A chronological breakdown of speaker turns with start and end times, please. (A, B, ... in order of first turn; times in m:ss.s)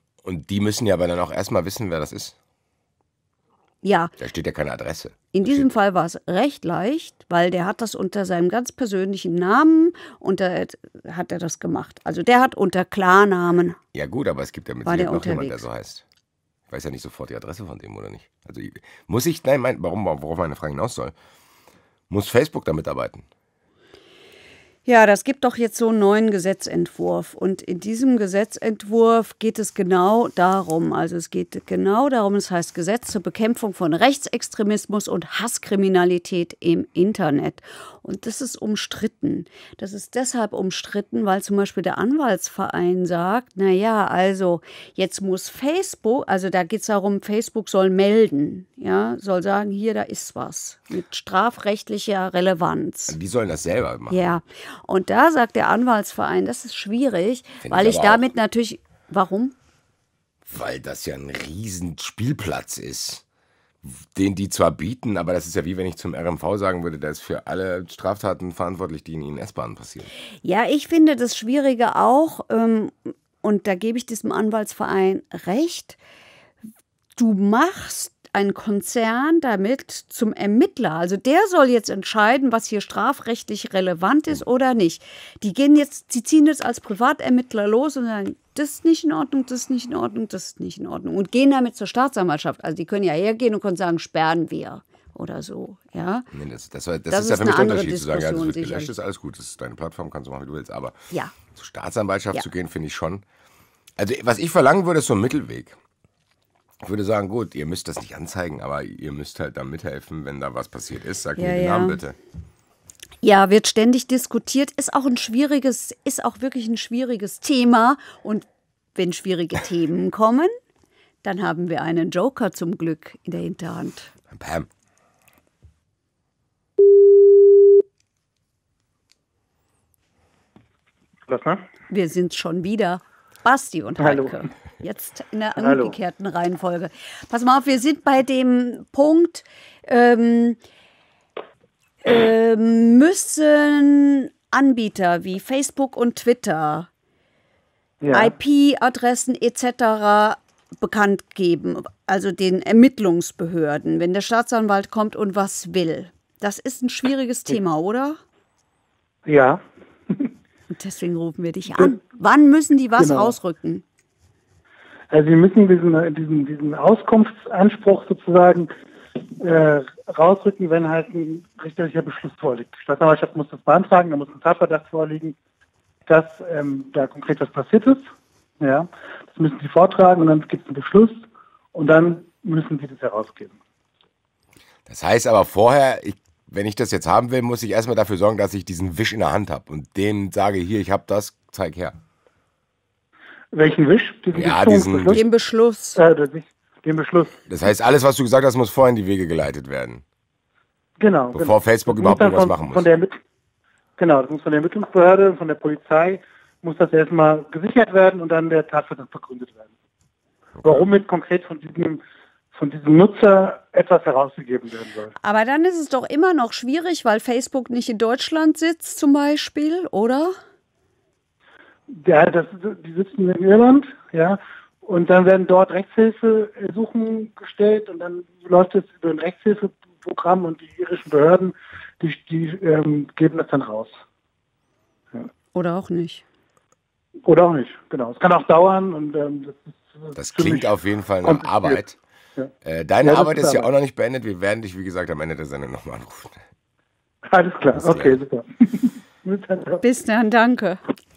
0:00.2-0:02.4 A
0:03.8-0:04.1 B
0:04.2-0:05.7 A
0:05.3-0:13.8 B
0:13.9-0:16.0 A
0:14.8-0:15.6 B
0:16.7-0:21.1 A
0:22.1-0:23.3 A
0:24.9-0:53.2 B
0:53.1-0:54.3 A
0:54.1-0:59.5 B
0:57.6-0:58.2 A
1:00.5-1:03.2 A
1:03.8-1:10.1 A
1:10.4-1:16.0 B
1:17.2-1:36.3 B
1:36.3-1:41.0 A
1:37.1-1:38.9 B
1:41.5-1:43.2 A
1:44.0-1:45.8 A
1:46.8-1:52.2 A
1:51.4-1:52.0 B
1:53.2-2:00.5 B
2:01.2-2:04.1 B
2:04.3-2:04.7 A
2:11.3-2:11.7 C
2:11.9-2:20.6 B
2:14.0-2:14.4 C
2:15.6-2:16.0 C
2:22.0-2:26.9 B
2:28.0-2:28.3 C
2:28.1-2:38.2 B
2:39.3-2:40.3 C
2:40.7-2:43.8 B
2:43.0-2:43.4 C
2:45.1-2:48.7 C
2:49.4-2:55.4 C
2:56.1-2:58.0 C
2:58.6-3:01.2 C
3:01.8-3:03.6 C
3:04.9-3:12.0 A
3:13.5-3:15.2 C
3:14.3-3:15.2 A
3:15.1-3:16.0 B
3:16.0-3:17.4 C
3:17.5-3:20.0 A
3:21.0-3:23.2 C
3:21.3-3:22.9 A
3:24.0-3:29.7 C
3:30.6-3:30.9 A
3:30.6-3:32.0 C
3:32.5-3:35.1 C
3:35.2-3:40.3 B
3:41.9-3:54.0 C
3:55.6-3:56.2 B
3:57.3-4:00.7 C
4:00.2-4:02.0 A
4:01.2-4:01.8 C
4:02.6-4:06.4 A
4:03.0-4:03.7 C
4:07.3-4:09.8 C
4:07.7-4:08.2 A
4:09.8-4:10.8 B